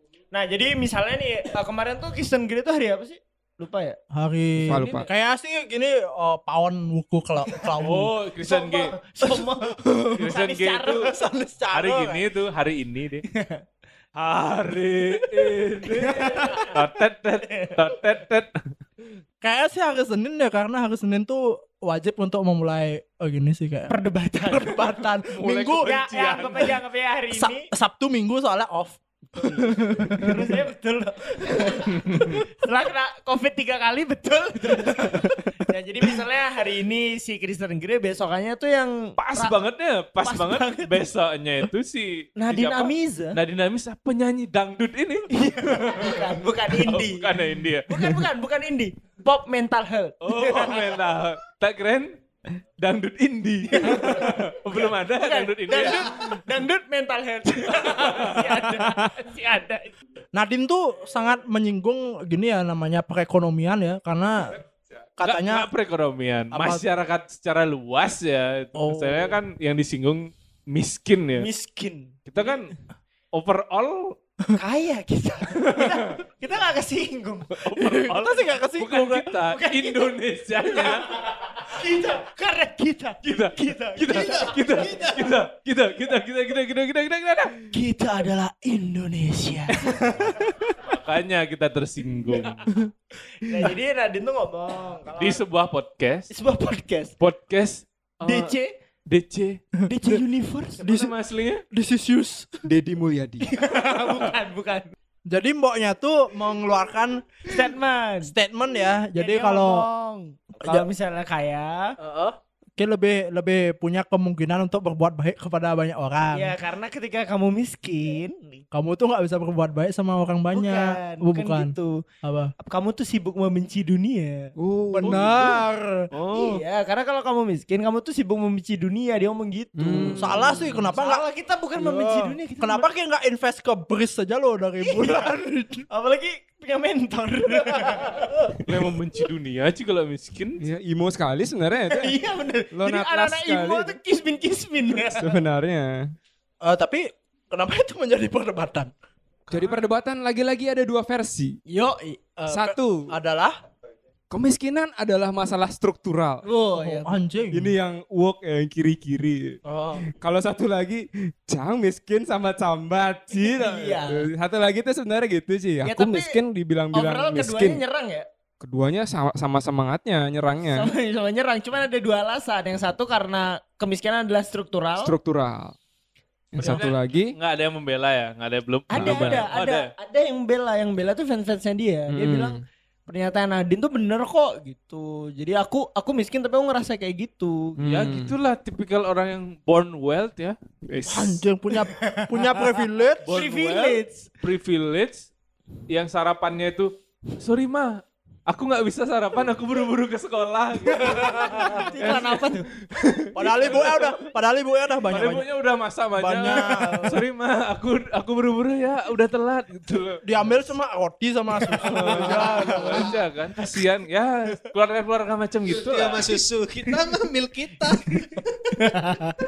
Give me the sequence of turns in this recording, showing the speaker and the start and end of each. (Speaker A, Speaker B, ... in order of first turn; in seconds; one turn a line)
Speaker A: 0.3-4.0
Speaker B: 4.1-8.1
Speaker C: 4.6-5.0
Speaker D: 7.8-8.9
Speaker A: 8.4-11.1
Speaker B: 9.2-10.0
Speaker D: 10.1-11.1
Speaker B: 11.1-12.2
Speaker D: 11.7-13.2
Speaker A: 13.3-13.6
Speaker D: 14.2-18.6
Speaker B: 16.0-16.5
Speaker A: 16.3-16.6
Speaker B: 19.4-23.9
Speaker A: 23.9-24.8
Speaker B: 24.4-26.0
Speaker D: 25.3-26.7
Speaker A: 25.8-27.7
Speaker B: 27.3-30.5
Speaker A: 29.4-39.5
Speaker D: 32.0-32.4
Speaker D: 39.2-47.9
Speaker A: 40.2-40.9
Speaker A: 42.4-43.4
Speaker A: 45.3-47.3
Speaker A: 47.9-50.9
Speaker D: 50.2-52.1
Speaker D: 52.8-56.3
Speaker A: 53.8-54.3
Speaker A: 55.1-59.9
Speaker D: 57.9-58.6
Speaker B: 60.3-64.5
Speaker B: 65.2-65.7
Speaker D: 65.2-71.5
Speaker B: 66.5-66.8
Speaker B: 68.8-69.4
Speaker A: 71.4-72.1
Speaker D: 72.3-72.8
Speaker D: 73.3-74.2
Speaker A: 74.5-77.6
Speaker D: 75.6-76.2
Speaker D: 77.6-81.1
Speaker B: 77.8-79.3
Speaker A: 79.4-80.1
Speaker A: 81.6-85.2
Speaker D: 83.2-87.6
Speaker A: 87.7-90.2
Speaker D: 90.7-92.7
Speaker A: 93.4-95.4
Speaker D: 95.2-96.3
Speaker A: 96.3-97.1
Speaker D: 97.2-98.5
Speaker A: 98.2-98.7
Speaker D: 99.1-99.6
Speaker A: 99.9-100.9
Speaker D: 100.8-101.6
Speaker B: 100.8-101.1
Speaker B: 101.7-102.5
Speaker C: 102.7-103.5
Speaker A: 103.4-104.9
Speaker B: 105.3-107.4
Speaker A: 107.5-108.3
Speaker B: 108.2-109.8
Speaker A: 109.1-112.0
Speaker B: 110.6-110.8
Speaker B: 112.0-116.5
Speaker A: 116.3-118.6
Speaker B: 118.7-122.5
Speaker A: 120.5-122.0
Speaker A: 122.6-124.5
Speaker C: 124.6-125.4
Speaker B: 124.9-126.1
Speaker D: 125.0-125.6
Speaker D: 126.1-126.6
Speaker A: 126.3-130.3
Speaker C: 129.8-130.8
Speaker B: 130.1-131.2
Speaker A: 130.9-132.8
Speaker B: 131.8-135.8
Speaker A: 135.9-138.2
Speaker D: 138.7-140.7
Speaker C: 140.6-142.2
Speaker A: 141.9-145.3
Speaker C: 142.7-143.9
Speaker C: 145.1-146.1
Speaker B: 146.6-148.9
Speaker D: 149.5-149.8
Speaker C: 149.5-151.6
Speaker A: 151.7-152.2
Speaker B: 152.4-153.6
Speaker C: 152.5-153.1
Speaker C: 154.3-156.4
Speaker A: 156.4-157.1
Speaker B: 156.8-157.7
Speaker C: 157.5-159.6
Speaker B: 159.6-160.0
Speaker C: 160.1-167.8
Speaker A: 163.3-164.3
Speaker A: 165.8-166.4
Speaker A: 166.9-168.2
Speaker C: 168.6-170.9
Speaker A: 170.7-175.1
Speaker C: 175.0-175.8
Speaker C: 176.5-177.3
Speaker D: 176.6-179.9
Speaker A: 178.9-187.8
Speaker C: 178.9-179.4
Speaker C: 182.1-182.6
Speaker C: 187.8-188.3
Speaker D: 187.8-190.6
Speaker C: 190.9-191.4
Speaker B: 191.0-193.2
Speaker A: 191.9-192.6
Speaker A: 193.2-194.3
Speaker D: 193.2-195.3
Speaker D: 195.9-202.2
Speaker A: 200.9-202.7
Speaker C: 203.0-203.3
Speaker B: 203.3-205.5
Speaker D: 203.6-204.1
Speaker D: 205.1-210.6
Speaker B: 206.2-207.2
Speaker B: 210.2-213.1
Speaker D: 211.8-216.3
Speaker E: 215.7-218.4
Speaker A: 218.8-219.3